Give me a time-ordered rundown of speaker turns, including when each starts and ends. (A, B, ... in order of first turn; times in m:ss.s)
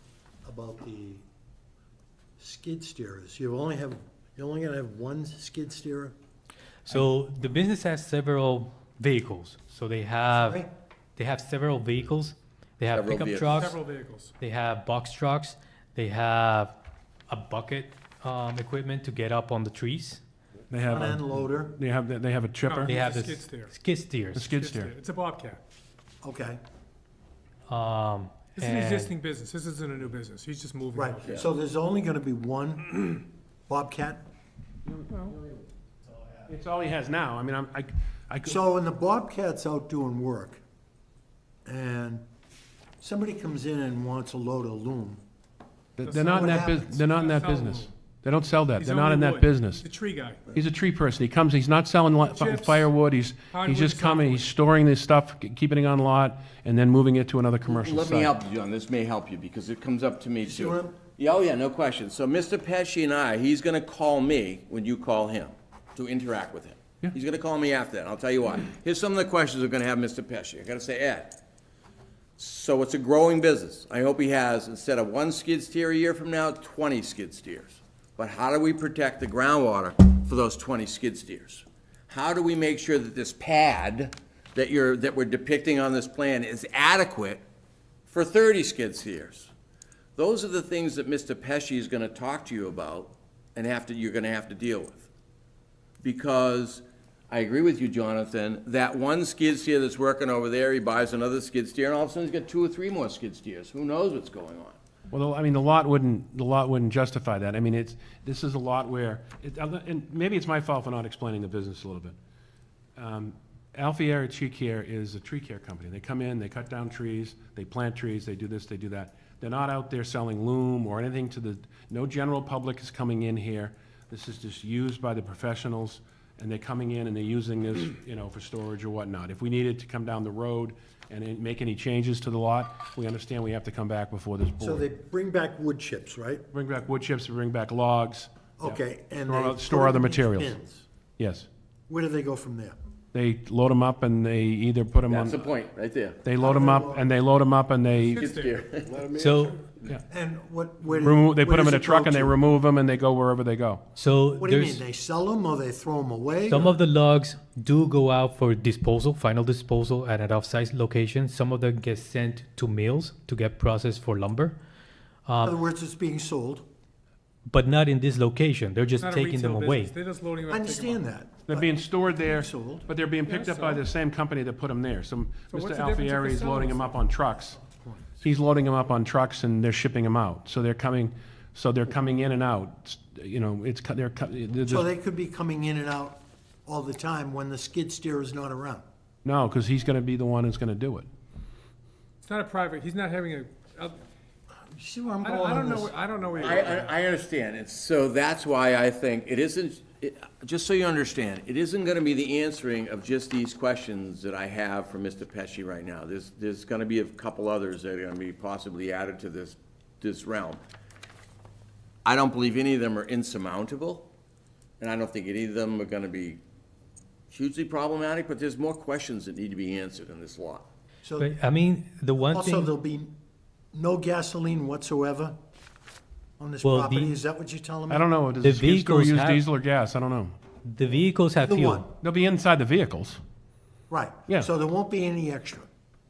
0:00.4-0:01.2 A
0:02.4-0:06.2 A
0:06.9-0:13.8 B
0:10.3-0:10.7 A
0:12.9-0:13.7 C
0:13.5-0:14.3 D
0:14.4-0:16.8 B
0:17.3-0:20.2 B
0:20.7-0:22.9 E
0:20.9-0:21.8 A
0:22.6-0:23.8 D
0:22.9-0:24.5 B
0:24.3-0:24.9 E
0:24.5-0:25.6 D
0:26.2-0:26.6 A
0:27.7-0:29.1 B
0:28.6-0:31.4 D
0:30.9-0:34.2 A
0:34.9-0:35.3 E
0:36.5-0:38.6 E
0:38.5-0:40.6 A
0:41.7-0:42.2 A
0:43.0-0:45.2 A
0:46.0-0:49.8 E
0:46.0-0:47.9 D
0:46.3-0:46.9 A
0:48.8-0:50.5 D
0:50.5-0:58.3 E
0:52.2-0:52.9 D
0:53.5-0:54.5 D
0:57.7-1:11.4 C
1:00.4-1:01.0 A
1:12.4-1:27.4 C
1:28.1-1:29.5 C
1:30.2-1:35.1 C
1:36.0-1:44.8 C
1:45.1-1:52.2 E
1:53.0-2:14.8 E
2:14.6-2:16.4 A
2:16.5-2:20.5 E
2:18.6-2:20.8 A
2:21.2-2:21.5 E
2:21.9-2:22.8 A
2:23.1-2:25.4 E
2:25.1-2:26.2 C
2:26.2-2:28.2 E
2:26.4-2:27.1 A
2:28.0-2:28.6 D
2:28.2-2:29.1 C
2:29.1-2:29.7 B
2:30.1-2:32.4 A
2:30.9-2:33.8 E
2:34.0-2:34.8 B
2:34.4-2:36.8 A
2:36.5-2:44.6 B
2:45.3-2:45.6 B
2:45.4-2:46.6 A
2:47.5-2:49.9 B
2:49.0-2:51.1 D
2:50.5-2:52.9 A
2:51.5-2:57.6 E
2:53.3-2:53.8 D
2:55.5-2:56.9 D
2:57.6-2:58.2 A
2:58.2-3:04.9 E
3:04.7-3:08.8 A
3:09.2-3:11.1 E
3:12.2-3:14.0 D
3:14.8-3:16.0 A
3:15.2-3:16.9 D
3:16.4-3:30.6 C
3:32.0-3:34.1 C
3:34.8-3:36.4 C
3:37.3-3:40.7 C
3:41.0-3:41.3 A
3:41.2-3:42.7 B
3:42.3-3:43.1 A
3:43.7-3:45.4 A
3:46.4-3:48.1 A
3:46.6-3:47.2 B
3:47.9-3:50.4 E
3:48.4-3:49.5 B
3:50.6-3:51.9 B
3:51.4-3:51.9 A
3:52.0-3:53.2 E
3:53.9-3:55.7 A